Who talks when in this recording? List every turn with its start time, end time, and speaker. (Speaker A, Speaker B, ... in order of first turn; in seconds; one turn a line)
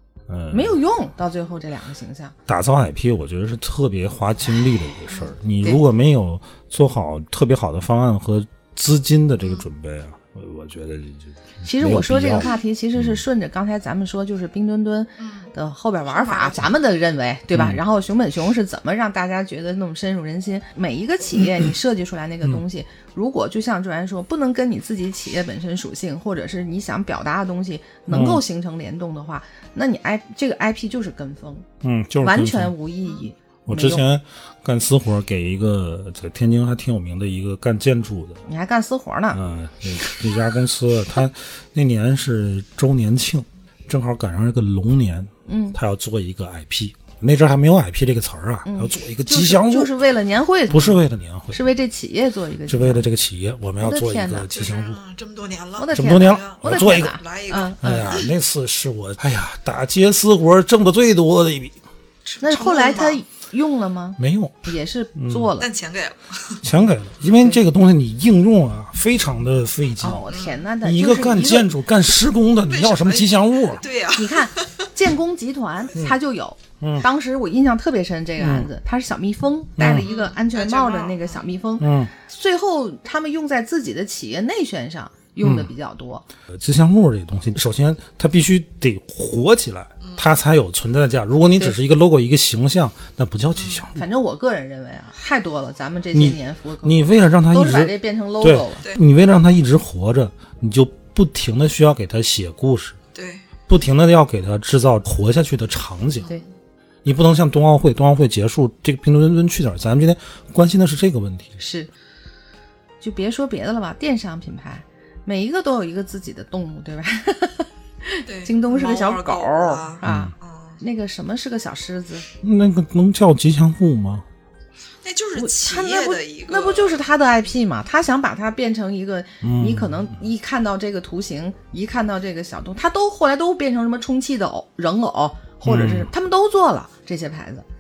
Speaker A: 0.3-0.8
Speaker B: 0.5-2.3
Speaker A: 2.5-13.2
Speaker C: 9.4-9.7
Speaker B: 11.6-31.7
Speaker C: 15.2-15.5
Speaker C: 16.1-16.6
Speaker A: 17.5-17.8
Speaker A: 28.1-28.4
Speaker A: 31.8-32.7
Speaker B: 32.2-34.0
Speaker A: 33.7-38.4
Speaker B: 38.5-39.4
Speaker A: 39.3-49.9
Speaker B: 45.5-45.8
Speaker B: 48.6-53.0
Speaker A: 50.7-51.6
Speaker A: 52.7-55.0
Speaker B: 53.8-54.5
Speaker C: 54.5-58.3
Speaker B: 55.8-58.2
Speaker A: 55.9-57.2
Speaker A: 57.8-61.8
Speaker C: 62.2-63.2
Speaker B: 62.4-65.7
Speaker A: 64.2-65.5
Speaker C: 65.6-66.7
Speaker A: 66.6-70.3
Speaker B: 70.0-71.7
Speaker C: 70.3-70.6
Speaker A: 70.8-73.8
Speaker C: 72.7-74.9
Speaker B: 74.1-86.2
Speaker A: 76.8-77.1
Speaker A: 78.4-78.7
Speaker A: 79.8-80.1
Speaker C: 80.0-81.4
Speaker A: 81.8-82.1
Speaker A: 85.4-85.7
Speaker A: 86.5-94.0
Speaker C: 90.0-90.4
Speaker C: 93.5-93.9
Speaker B: 94.0-98.8
Speaker A: 96.1-103.0
Speaker C: 103.1-103.5
Speaker A: 103.7-106.3
Speaker A: 107.0-111.5
Speaker B: 111.6-111.9
Speaker B: 113.0-122.3
Speaker C: 118.3-120.8
Speaker A: 120.0-120.3
Speaker A: 122.4-124.3
Speaker C: 125.0-127.0
Speaker B: 125.4-137.6
Speaker A: 129.4-130.2
Speaker A: 135.6-136.1